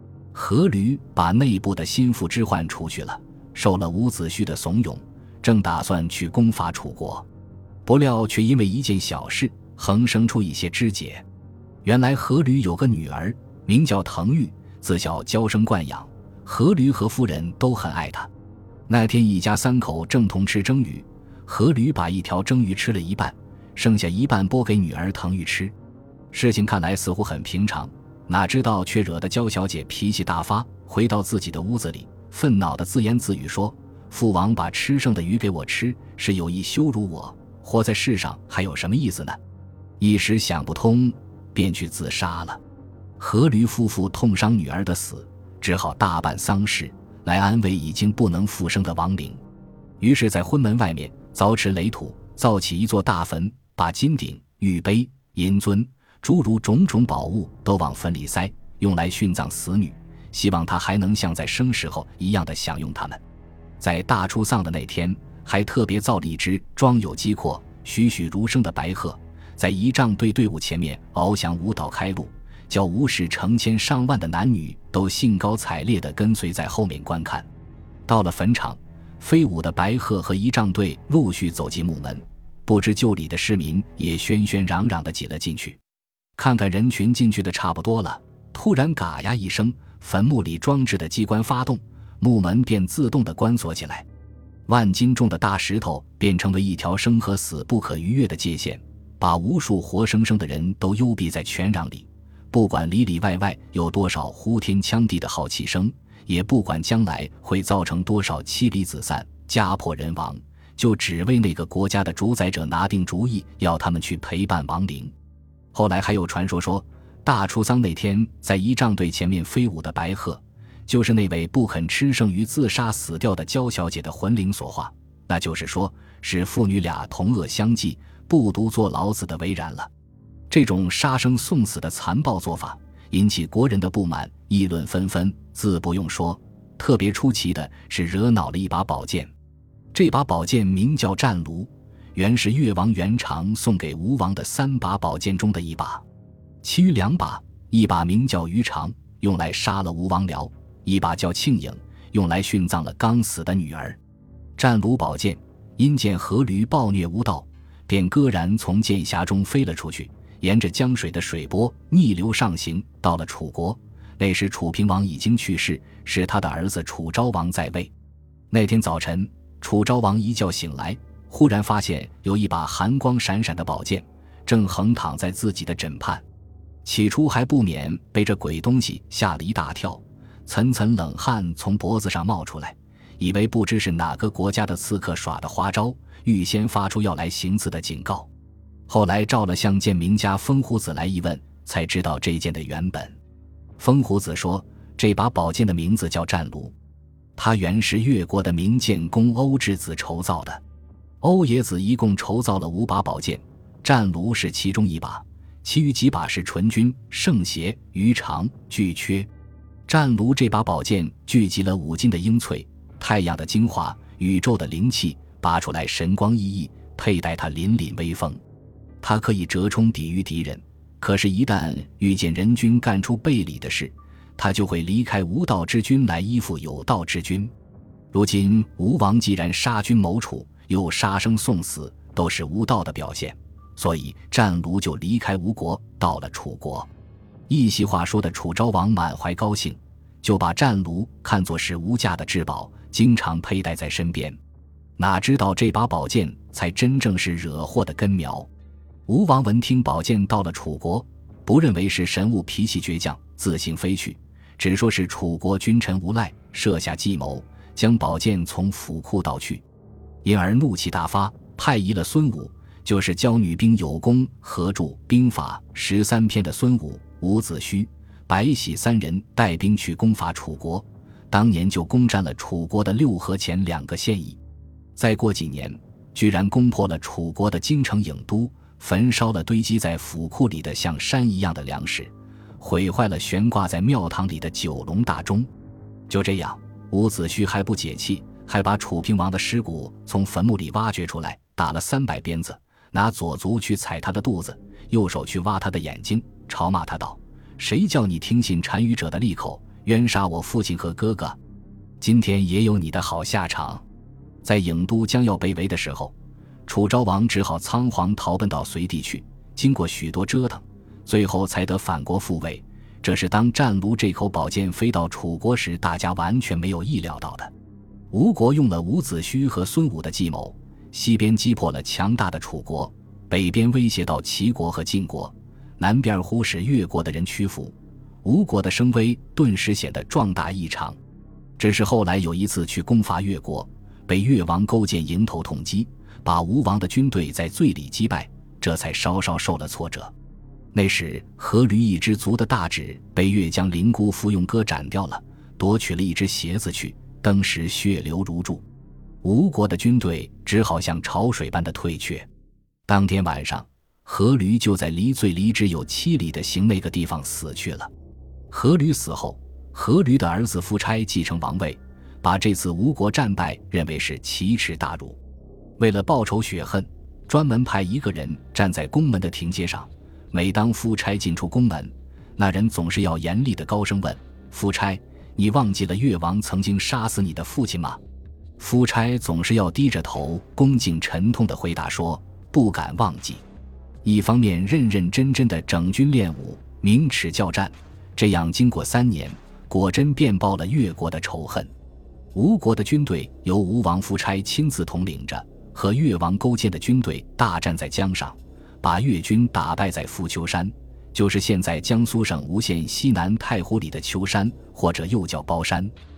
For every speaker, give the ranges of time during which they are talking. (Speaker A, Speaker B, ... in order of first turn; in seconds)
Speaker A: 0.3-7.3, 7.8-11.2, 11.8-18.3, 18.9-25.7, 26.3-39.4, 40.0-42.6, 43.2-49.4, 50.0-63.2, 63.8-77.5, 78.1-85.8, 86.4-94.1, 94.7-115.1, 115.7-129.9, 130.5-139.3, 139.9-146.0, 146.6-154.0, 154.6-167.9, 168.5-176.2, 176.8-188.3, 188.9-193.2, 193.8-196.8, 197.4-200.6, 201.2-209.3, 209.9-218.4, 219.0-227.5, 228.1-236.9, 237.5-244.4, 245.0-248.5, 249.1-259.6, 260.2-274.4, 275.0-285.5, 286.1-301.4, 302.0-303.9, 304.4-306.1, 306.7-317.5, 318.1-331.0, 331.6-340.1, 340.7-348.6, 349.2-352.3, 352.9-357.9, 358.5-365.2, 365.8-378.0, 378.6-383.4, 384.0-391.7, 392.3-405.9